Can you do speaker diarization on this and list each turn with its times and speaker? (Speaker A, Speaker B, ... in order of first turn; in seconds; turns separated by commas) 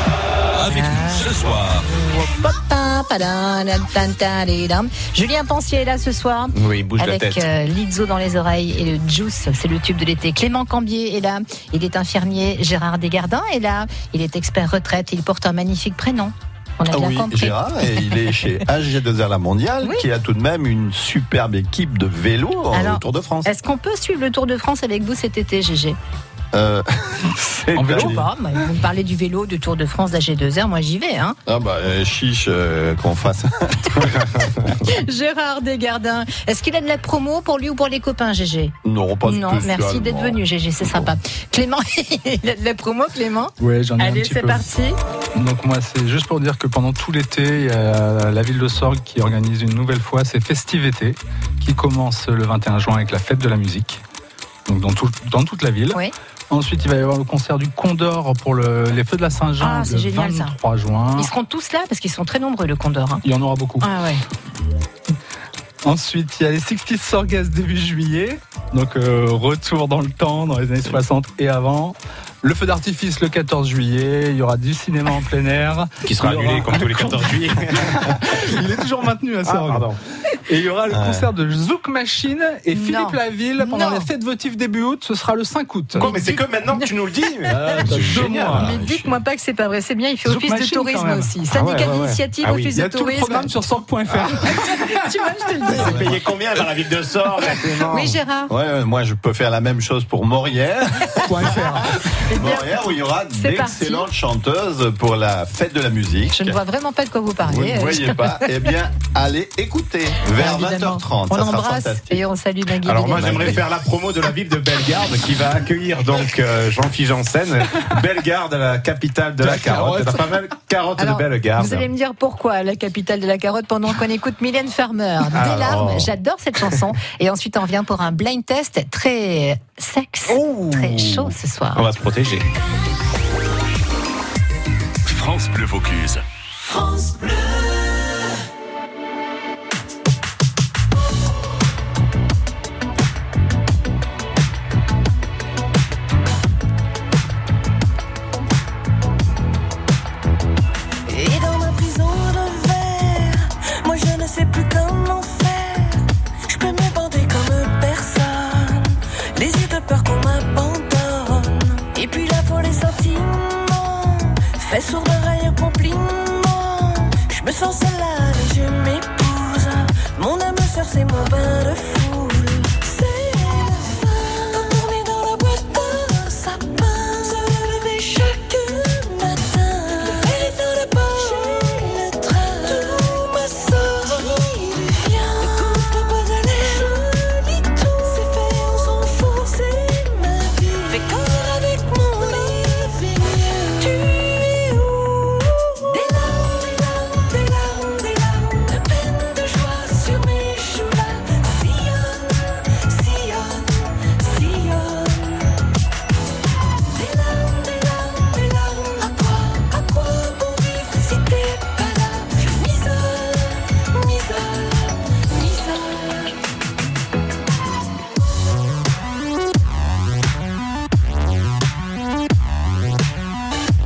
Speaker A: 0.7-1.3, Speaker A: 1.9-18.2, Speaker B: 6.5-7.5, Speaker C: 16.9-23.5, Speaker A: 22.7-26.0, Speaker C: 26.5-28.2, Speaker D: 27.7-28.2, Speaker A: 27.9-31.4, Speaker C: 31.4-34.6, Speaker A: 34.8-45.0, Speaker C: 38.8-41.1, Speaker D: 43.6-44.7, Speaker D: 45.3-54.0, Speaker D: 54.7-61.3, Speaker A: 59.6-60.5, Speaker A: 61.1-63.2, Speaker D: 63.2-63.9, Speaker A: 63.8-64.2, Speaker D: 65.8-79.9, Speaker B: 76.0-78.1, Speaker B: 79.4-80.0, Speaker D: 80.5-86.1, Speaker C: 80.9-81.3, Speaker A: 82.7-84.1, Speaker B: 86.0-88.6, Speaker A: 86.0-86.9, Speaker C: 87.6-89.1, Speaker D: 87.8-88.7, Speaker A: 88.5-93.5, Speaker D: 90.2-91.3, Speaker B: 91.5-92.7, Speaker D: 92.7-94.9, Speaker A: 94.9-96.1, Speaker B: 95.7-98.2, Speaker D: 95.7-96.1, Speaker A: 97.9-98.5, Speaker C: 98.5-101.7, Speaker D: 101.2-102.0, Speaker A: 102.3-102.8, Speaker C: 102.3-106.6, Speaker A: 103.3-104.1, Speaker A: 106.3-108.5, Speaker C: 107.4-112.2, Speaker A: 110.3-113.5, Speaker B: 112.8-121.9, Speaker C: 113.1-113.6, Speaker A: 119.7-120.0, Speaker A: 121.0-131.9, Speaker B: 125.3-126.1, Speaker B: 130.3-132.5, Speaker E: 151.1-205.5, Speaker E: 206.8-216.3